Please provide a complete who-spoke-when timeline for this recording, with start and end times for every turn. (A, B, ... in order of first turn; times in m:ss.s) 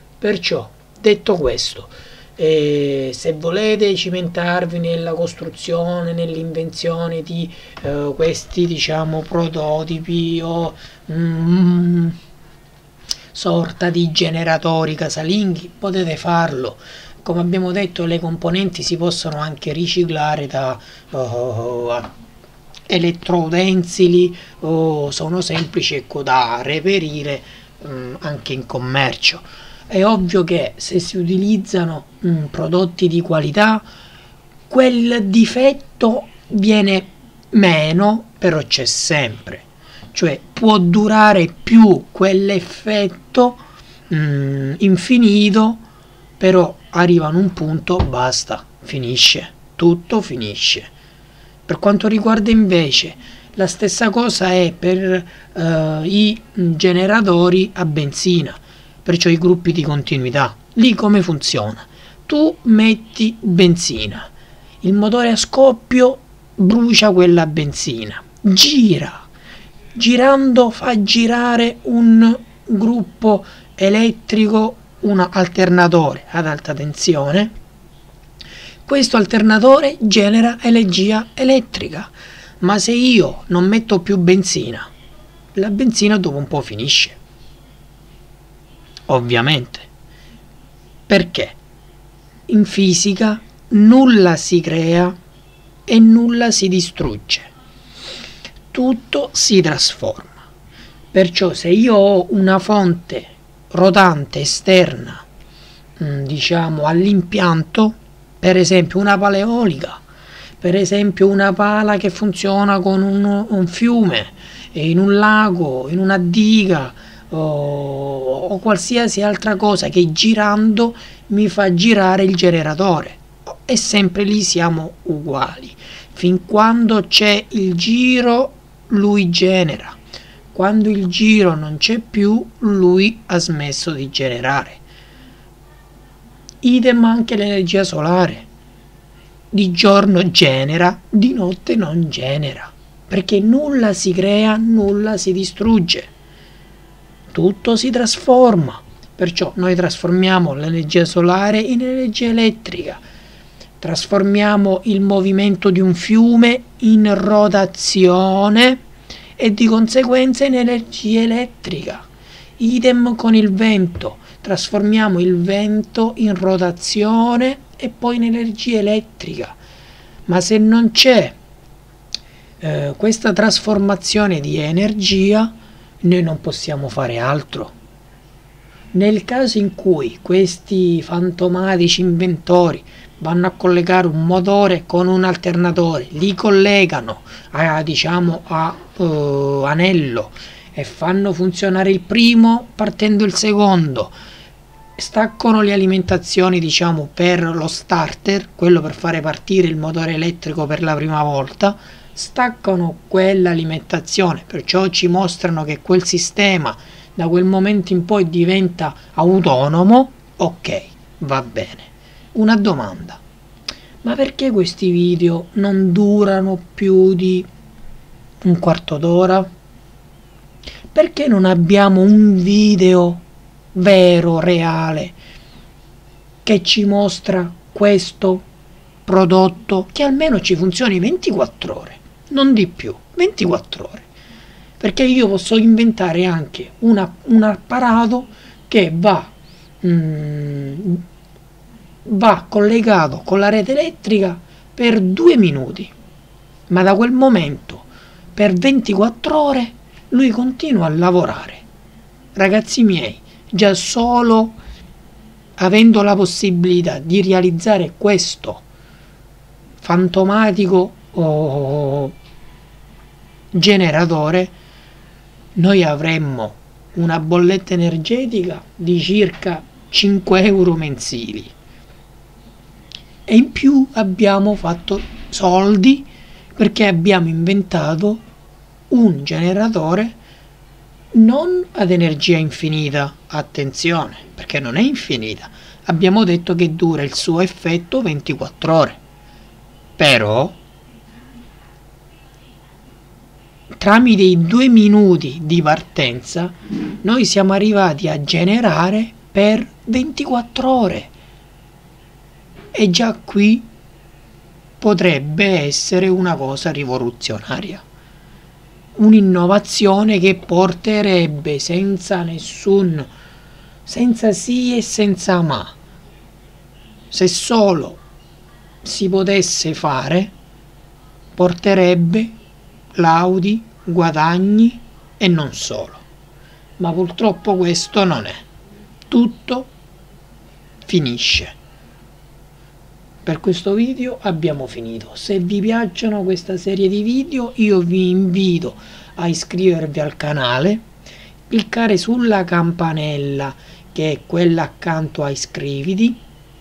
0:00.2-0:12.2 A
0:13.3-0:22.1 A
0:22.9-0:33.9 A
0:34.7-0:45.8 A
0:46.4-0:50.9 A
0:51.7-1:09.3 A
1:10.0-1:17.5 A
1:18.9-1:24.9 A
1:25.6-1:27.2 A
1:29.1-1:29.9 A
1:31.1-1:31.6 A
1:32.5-1:35.2 A
1:35.9-1:37.5 A
1:38.7-1:40.4 A
1:41.1-1:45.2 A
1:46.0-1:50.0 A
1:50.6-2:10.0 A
2:10.5-2:14.8 A
2:16.6-2:18.5 A
2:19.5-2:26.1 A
2:27.3-2:33.0 A
2:33.8-2:38.8 A
2:39.4-2:42.1 A
2:42.6-2:49.6 A
2:50.3-2:51.4 A
2:52.6-2:57.7 A
2:58.9-3:14.1 A
3:15.0-3:33.2 A
3:34.0-3:37.5 A
3:38.4-3:39.5 A
3:40.9-3:45.2 A
3:46.4-3:48.4 A
3:49.1-3:54.1 A
3:54.8-4:01.0 A
4:02.1-4:05.9 A
4:06.7-4:11.6 A
4:12.4-4:14.6 A
4:15.6-4:18.6 A
4:19.8-4:22.2 A
4:23.5-4:24.6 A
4:25.6-4:31.5 A
4:33.3-4:38.2 A
4:38.9-4:40.2 A
4:41.1-4:49.0 A
4:50.0-4:50.6 A
4:53.8-5:01.1 A
5:02.7-5:03.7 A
5:04.8-5:07.8 A
5:09.0-5:13.1 A
5:13.9-5:15.8 A
5:17.1-5:18.0 A
5:18.8-5:20.3 A
5:21.4-5:22.4 A
5:23.0-5:26.0 A
5:26.8-5:28.5 A
5:29.1-5:29.7 A
5:30.9-5:31.6 A
5:33.2-5:40.8 A
5:41.5-5:46.2 A